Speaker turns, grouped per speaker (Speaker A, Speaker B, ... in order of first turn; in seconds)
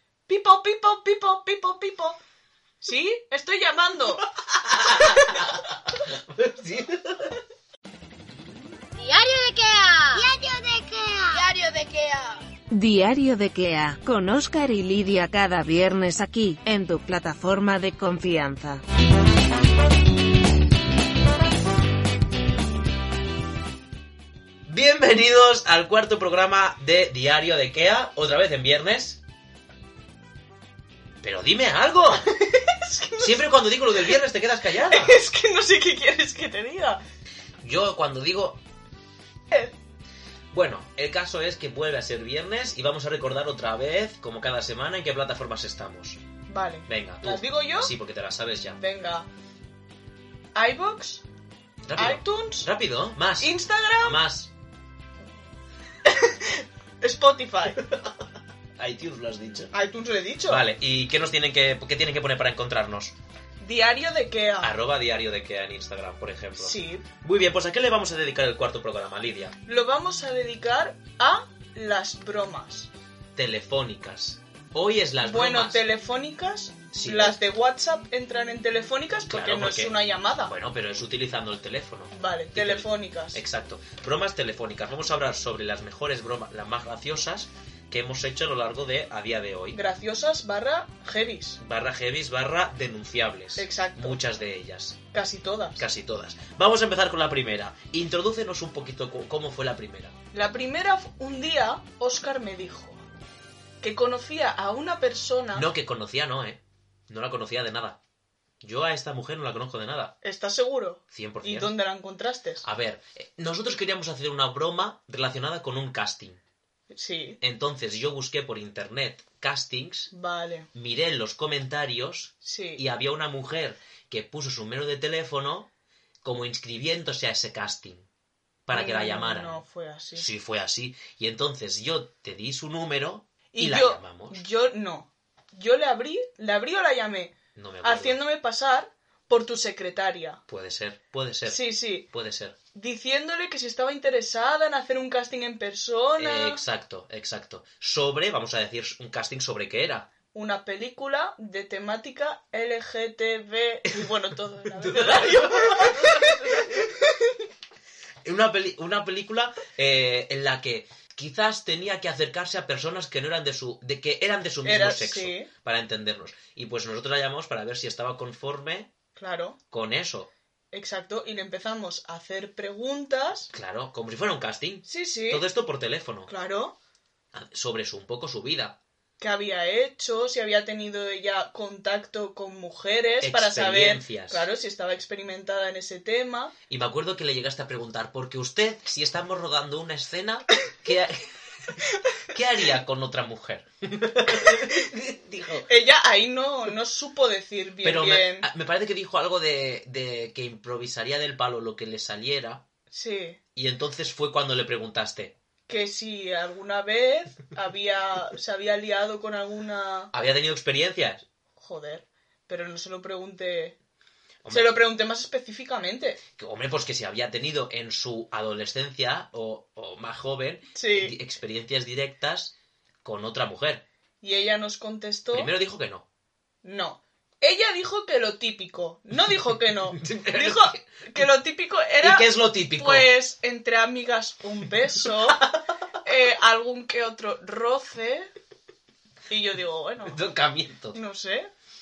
Speaker A: 0.3-2.2, 2.8-4.3, 32.1-34.2, 34.8-37.0, 46.5-48.0, 48.7-49.3, 50.5-51.2, 52.0-52.7, 53.4-54.2, 56.1-57.8, 59.7-60.7, 63.6-64.8, 66.6-67.1, 69.7-72.9, 75.2-80.5, 82.1-83.4, 89.7-91.6, 93.6-94.3, 95.1-95.8, 100.3-103.0, 103.8-105.7, 110.2-112.6, 116.9-117.4, 120.1-120.7, 122.4-122.8, 128.7-130.3, 133.5-140.4, 141.5-142.1, 142.7-146.6, 150.3-157.4, 164.6-165.5, 169.2-169.6, 170.7-173.5, 174.9-175.5, 176.3-176.8, 179.2-186.5, 191.8-192.2, 194.3-194.8, 195.7-198.5, 202.9-203.4, 205.7-210.1, 211.6-213.8, 214.5-216.2, 220.8-221.2, 224.2-225.6, 226.6-235.4, 236.0-238.3, 239.3-240.2, 240.9-241.5
Speaker B: 4.5-7.4, 24.7-29.2, 31.2-32.3, 33.2-35.2, 37.6-38.6, 40.5-46.2, 46.9-48.8, 51.9-54.5, 58.8-59.7, 60.5-63.1, 64.6-69.5, 73.4-75.8, 77.0-77.4, 79.3-89.8, 91.6-95.0, 95.8-100.1, 105.5-108.0, 108.6-110.2, 111.1-111.8, 112.6-116.4, 117.4-120.1, 120.7-125.7, 126.2-128.1, 128.7-129.6, 130.2-134.4, 137.6-138.2, 140.5-142.6, 146.2-150.1, 154.7-156.9, 158.2-168.9, 169.7-170.3, 173.5-176.3, 177.3-178.8, 183.2-184.5, 186.7-195.7, 197.8-202.6, 203.6-205.3, 210.1-211.2, 214.4-214.8, 216.4-223.8, 225.3-226.1, 229.5-230.8, 232.0-233.1, 235.3-235.6, 240.0-241.0
Speaker C: 9.0-10.4, 11.3-12.4
Speaker D: 9.1-11.5, 12.7-18.8